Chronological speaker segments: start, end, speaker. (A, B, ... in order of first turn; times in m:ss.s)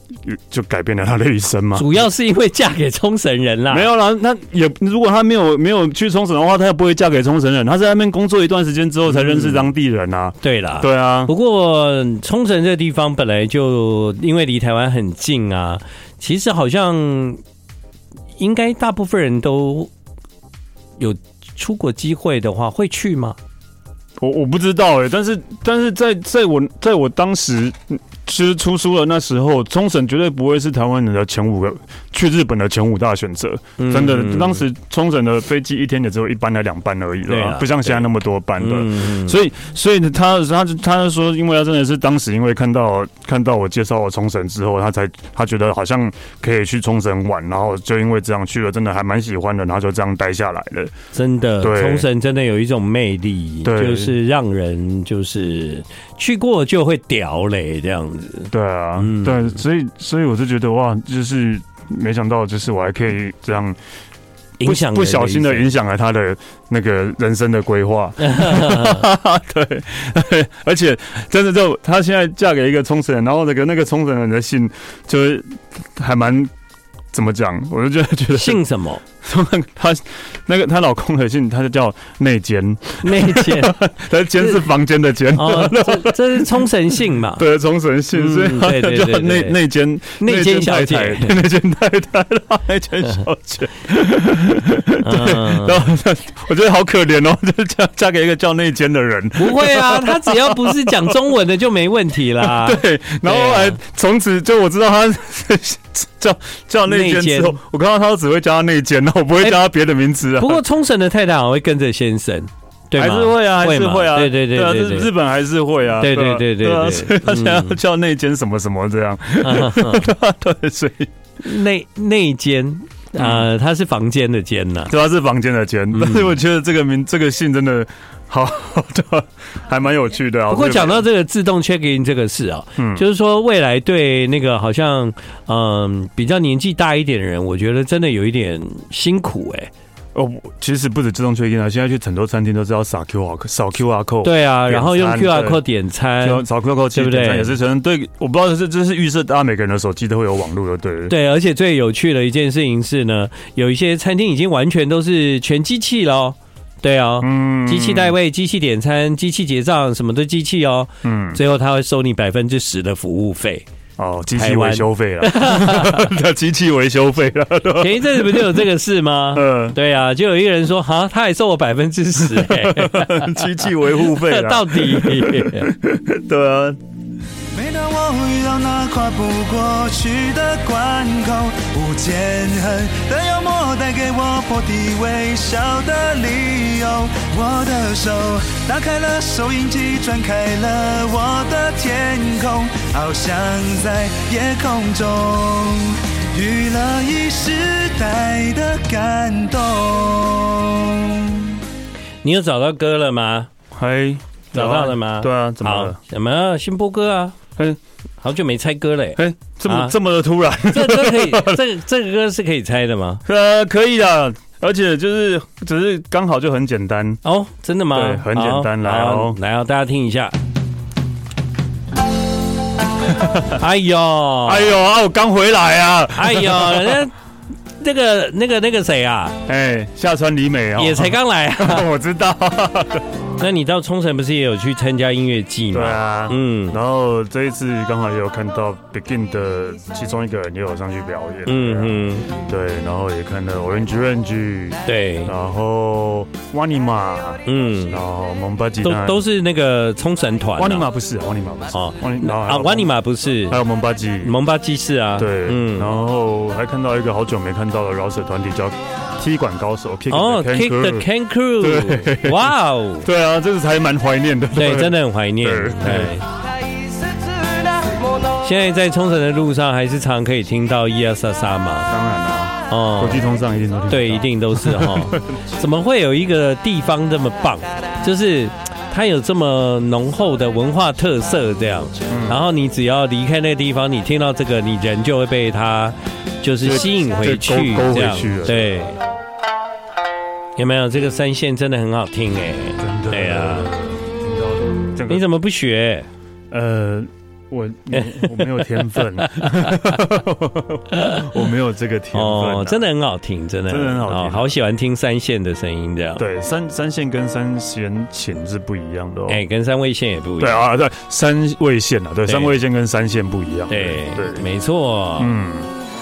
0:00.2-0:02.0 A
0:01.7-0:03.9 B
0:03.7-0:11.3 A
0:09.1-0:09.7 B
0:10.4-0:17.4 B
0:18.4-0:19.9 B
0:21.0-0:23.4 B
0:24.2-0:50.9 A
0:33.8-0:34.6 B
0:37.3-0:39.4 B
0:51.1-0:59.5 B
0:51.6-0:52.1 A
0:53.6-0:54.1 A
0:58.5-1:03.8 A
1:04.6-1:05.7 B
1:04.6-1:16.5 A
1:08.2-1:09.1 B
1:17.1-1:18.6 A
1:18.3-1:19.0 B
1:19.2-1:26.7 A
1:23.0-1:23.8 B
1:24.4-1:24.6 B
1:25.3-1:27.4 B
1:27.4-1:41.2 A
1:28.1-1:29.6 B
1:30.2-1:31.4 B
1:35.0-1:35.8 B
1:39.4-1:43.8 B
1:42.4-1:50.6 A
1:46.9-1:47.6 B
1:50.4-1:55.1 B
1:53.0-2:01.1 A
1:56.0-1:57.8 B
1:59.4-2:00.1 B
2:01.4-2:04.9 B
2:03.2-2:03.5 A
2:04.9-2:11.0 A
2:05.9-2:06.3 B
2:10.5-2:19.7 B
2:12.8-2:13.0 A
2:20.1-2:25.6 A
2:24.2-2:27.5 B
2:26.2-2:31.1 A
2:31.1-2:43.6 B
2:37.2-2:38.1 A
2:41.0-2:41.4 A
2:44.0-2:48.6 A
2:44.3-2:46.1 B
2:47.8-2:55.7 B
2:49.3-2:49.8 A
2:52.2-2:56.8 A
2:57.5-3:21.6 C
3:22.2-3:23.5 B
3:23.7-3:26.0 A
3:24.5-3:27.4 B
3:28.2-3:29.9 B
3:29.2-3:31.6 A
3:30.7-3:33.2 B
3:33.2-3:37.2 A
3:37.2-3:40.3 B
3:37.9-3:39.4 A
3:43.1-3:43.6 A
3:43.5-3:44.7 B
3:44.4-3:47.1 A
3:46.2-3:47.1 B
3:47.8-3:49.4 B
3:49.5-3:53.0 A
3:50.8-3:51.9 B
3:53.4-3:56.8 B
3:55.7-4:09.2 A
4:01.4-4:02.3 B
4:04.8-4:05.3 B
4:07.4-4:08.0 B
4:08.8-4:10.9 B
4:10.6-4:12.9 A
4:11.7-4:13.6 B
4:13.5-4:14.4 A
4:14.2-4:15.9 B
4:15.2-4:26.2 A
4:20.1-4:23.1 B
4:24.5-4:26.2 B
4:28.4-4:31.9 B
4:31.9-4:35.3 A
4:32.7-4:33.3 B
4:33.9-4:49.0 B
4:42.1-4:42.4 A
4:46.6-4:48.8 A
4:50.6-4:53.7 B
4:52.8-4:55.2 A
4:55.1-4:56.1 B
4:56.5-5:02.8 A
4:58.0-5:00.0 B
5:00.9-5:01.3 B
5:02.1-5:06.2 B
5:03.7-5:04.5 A
5:06.2-5:09.4 A
5:09.3-5:10.6 B
5:10.4-5:14.4 A
5:12.2-5:12.6 B
5:13.7-5:15.3 B
5:15.2-5:15.7 A